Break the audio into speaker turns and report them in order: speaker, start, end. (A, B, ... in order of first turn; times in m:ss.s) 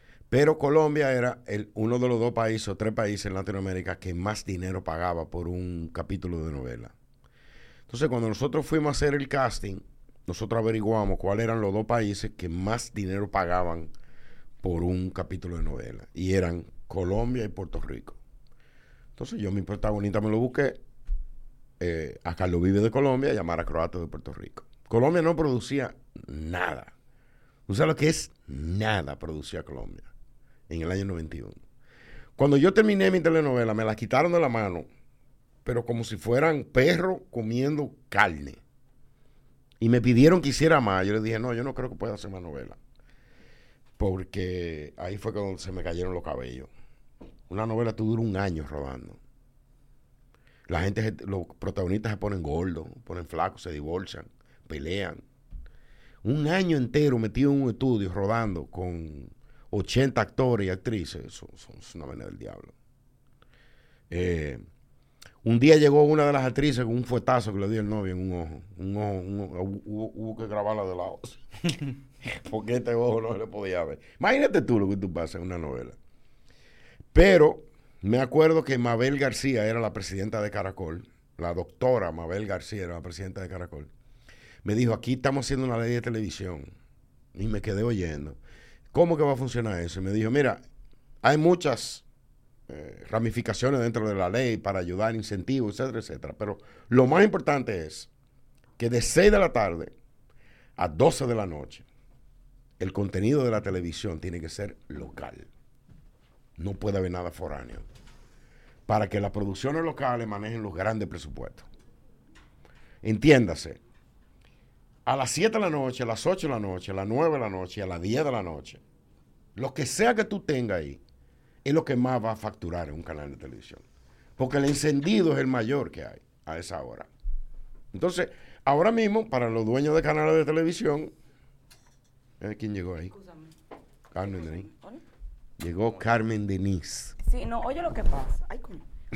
0:00.3-0:06.9 A
0:07.9-0:13.9 A
0:14.6-0:18.2 A
0:19.2-0:20.8 A
0:21.8-0:26.9 A
0:27.7-0:30.1 A
0:30.7-0:31.6 A
0:32.4-0:34.9 A
0:35.6-0:38.6 A
0:39.8-0:42.8 A
0:44.0-0:46.7 A
0:47.5-0:49.2 A
0:50.7-0:55.2 A
0:56.2-1:02.7 A
1:04.1-1:04.6 A
1:05.4-1:16.0 A
1:17.1-1:23.9 A
1:24.6-1:26.7 A
1:27.4-1:28.4 A
1:28.9-1:30.6 A
1:31.2-1:32.0 A
1:32.7-1:38.1 A
1:38.8-1:39.9 A
1:40.8-1:41.8 A
1:42.8-1:45.5 A
1:46.6-1:47.8 A
1:48.9-1:51.7 A
1:53.0-1:53.8 A
1:55.1-1:58.8 A
1:59.6-2:01.0 A
2:01.6-2:03.8 A
2:04.4-2:07.1 A
2:07.9-2:11.1 A
2:12.4-2:13.1 A
2:13.1-2:13.5 B
2:14.1-2:14.7 A
2:14.3-2:15.0 B
2:15.6-2:17.2 A
2:17.2-2:18.8 B